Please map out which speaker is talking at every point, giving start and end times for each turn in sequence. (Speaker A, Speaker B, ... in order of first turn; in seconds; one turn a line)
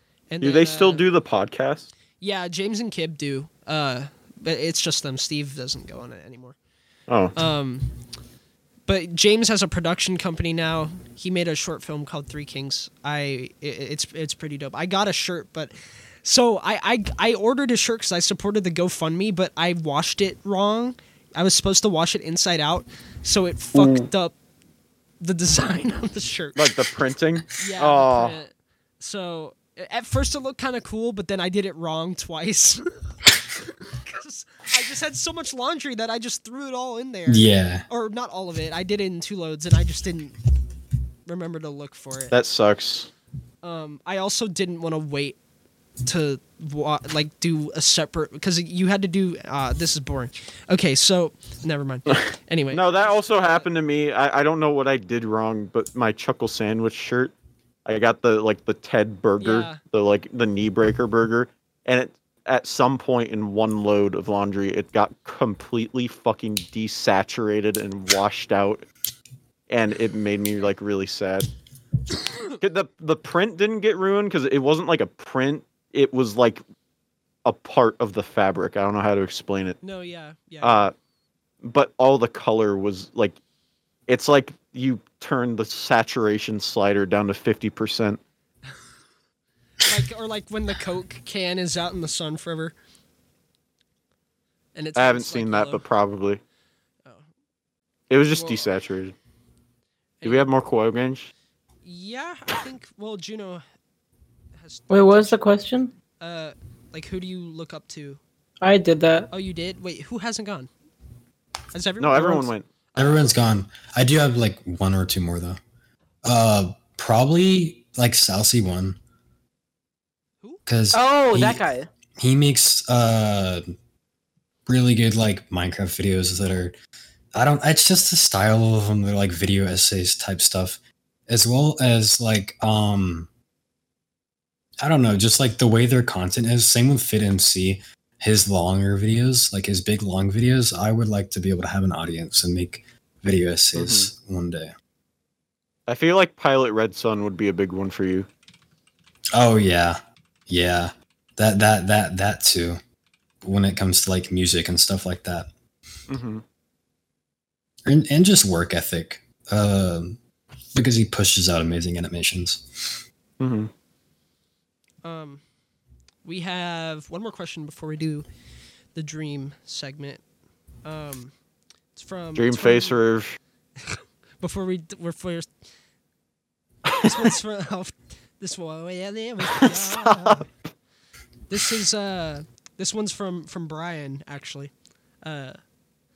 Speaker A: 0.3-1.1
Speaker B: 0.4-1.9
Speaker A: 2.2-6.5
Speaker B: 7.1-7.3
Speaker A: 7.3-7.9
Speaker A: 8.9-15.7
Speaker A: 16.2-24.3
Speaker B: 23.8-24.1
Speaker A: 25.2-26.7
Speaker B: 26.6-28.4
Speaker A: 27.6-40.4
Speaker C: 37.3-37.9
Speaker A: 41.3-42.3
Speaker B: 42.3-43.1
Speaker A: 43.6-45.4
Speaker A: 46.0-53.7
Speaker B: 52.1-57.3
Speaker B: 57.9-68.9
Speaker A: 59.4-59.8
Speaker B: 69.7-71.5
Speaker B: 72.6-76.6
Speaker B: 77.5-79.8
Speaker A: 79.8-80.9
Speaker B: 80.6-80.9
Speaker B: 81.6-83.4
Speaker B: 84.1-88.2
Speaker A: 89.8-92.7
Speaker A: 94.7-95.8
Speaker B: 95.0-96.4
Speaker B: 98.1-99.1
Speaker A: 98.3-98.7
Speaker A: 100.2-100.5
Speaker B: 100.2-101.3
Speaker A: 101.8-103.6
Speaker A: 104.6-105.6
Speaker D: 104.9-105.9
Speaker A: 106.2-108.2
Speaker D: 108.6-109.3
Speaker A: 109.3-110.7
Speaker A: 111.7-113.3
Speaker B: 112.0-112.7
Speaker C: 113.0-115.6
Speaker C: 116.2-119.0
Speaker C: 120.7-121.6
Speaker D: 120.9-121.9
Speaker C: 122.2-123.6
Speaker C: 124.7-126.8
Speaker C: 127.3-133.3
Speaker C: 134.8-144.7
Speaker B: 143.8-144.1
Speaker B: 145.9-148.3
Speaker C: 149.3-152.8
Speaker C: 153.4-155.5
Speaker B: 156.1-156.4
Speaker C: 157.9-160.2
Speaker C: 160.7-163.0
Speaker B: 163.4-163.7
Speaker A: 165.0-165.4
Speaker A: 166.2-168.3
Speaker A: 168.9-170.2
Speaker A: 170.8-171.3
Speaker A: 171.9-172.9
Speaker B: 172.4-173.4
Speaker A: 173.8-175.5
Speaker B: 176.9-177.3
Speaker A: 177.0-180.4
Speaker B: 179.5-180.4
Speaker A: 181.5-184.7
Speaker A: 185.2-185.6